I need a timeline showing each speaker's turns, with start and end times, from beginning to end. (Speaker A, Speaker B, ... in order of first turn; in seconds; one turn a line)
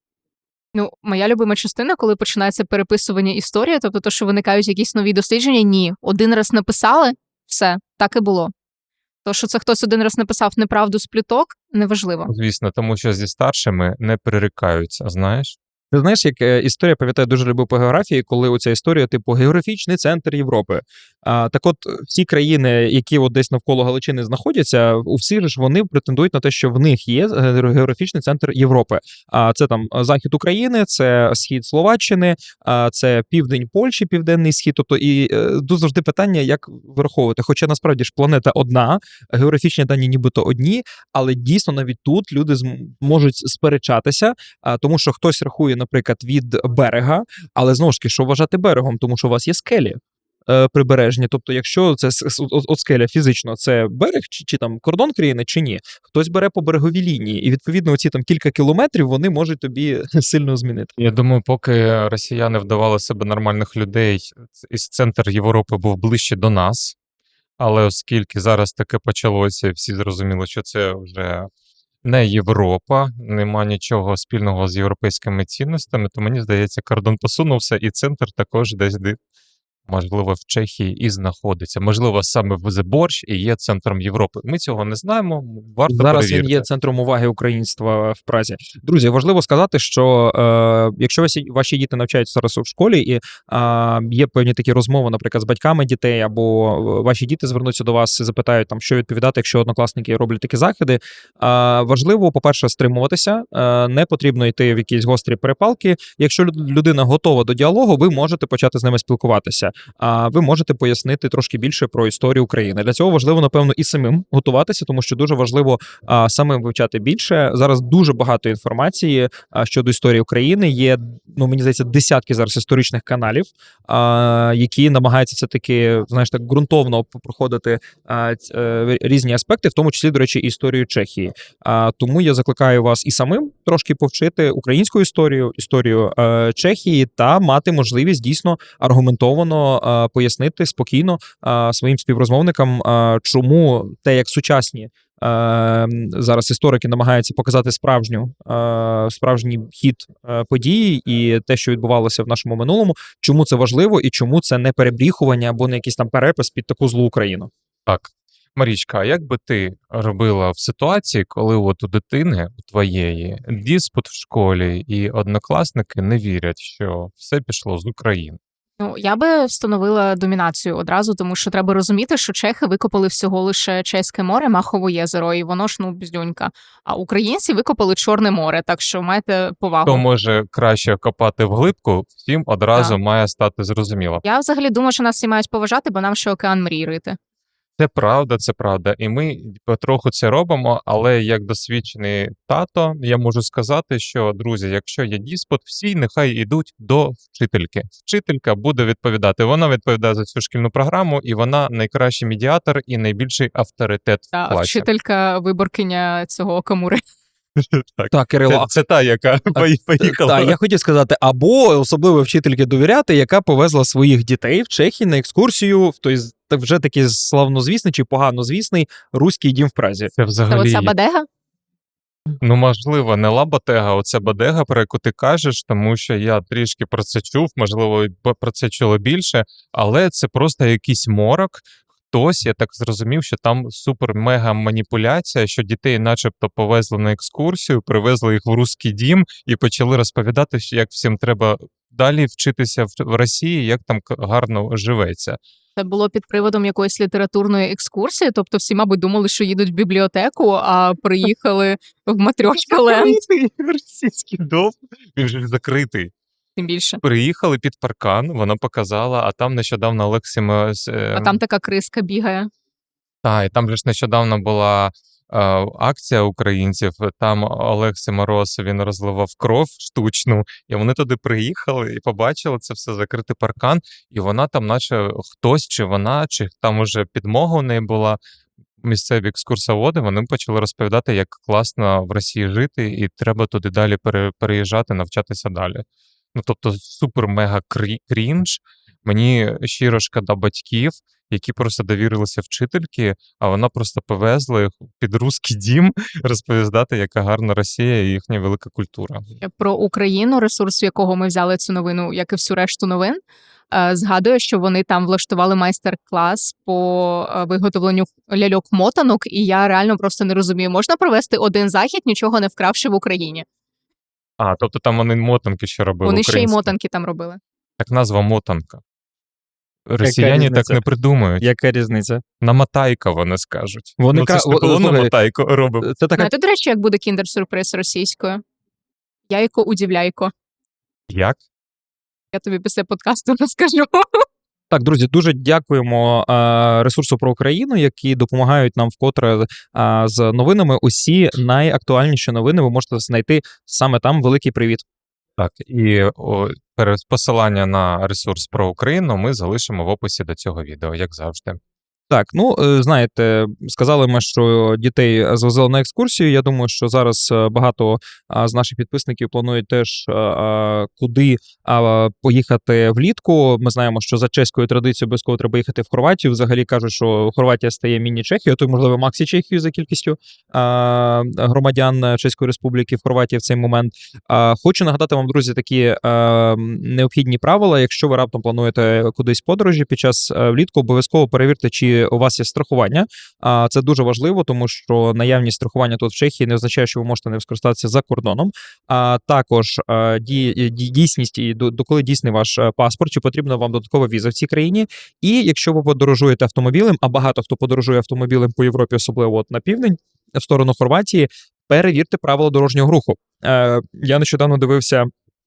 Speaker A: 0.7-8.5
Speaker A: 9.2-12.3
Speaker B: 12.3-15.6
Speaker C: 15.9-60.9
Speaker B: 61.0-67.0
Speaker B: 67.6-71.5
Speaker B: 72.0-79.2
Speaker B: 79.9-86.7
Speaker C: 85.9-157.5
Speaker B: 157.9-168.4
Speaker A: 168.8-180.0
Speaker B: 179.8-184.2
Speaker A: 184.2-187.2
Speaker B: 187.8-204.9
Speaker A: 204.3-207.0
Speaker B: 207.6-210.6
Speaker C: 208.1-208.7
Speaker C: 209.6-220.1
Speaker B: 220.2-220.9
Speaker A: 220.5-221.3
Speaker B: 222.4-245.4
Speaker A: 245.8-253.2
Speaker B: 252.5-256.1
Speaker A: 256.6-257.0
Speaker B: 257.0-261.4
Speaker A: 261.1-262.5
Speaker B: 263.2-278.2
Speaker B: 278.8-299.2
Speaker A: 299.4-303.2
Speaker A: 303.7-313.4
Speaker B: 314.4-316.7
Speaker A: 316.0-317.4
Speaker B: 317.8-318.8
Speaker B: 319.9-321.5
Speaker C: 320.0-320.8
Speaker C: 321.4-322.2
Speaker B: 322.4-325.9
Speaker C: 324.0-325.1
Speaker C: 325.8-326.3
Speaker A: 326.2-328.4
Speaker A: 329.3-330.3
Speaker B: 331.1-331.4
Speaker A: 332.3-334.2
Speaker C: 334.7-344.8
Speaker B: 345.4-351.6
Speaker C: 352.1-405.1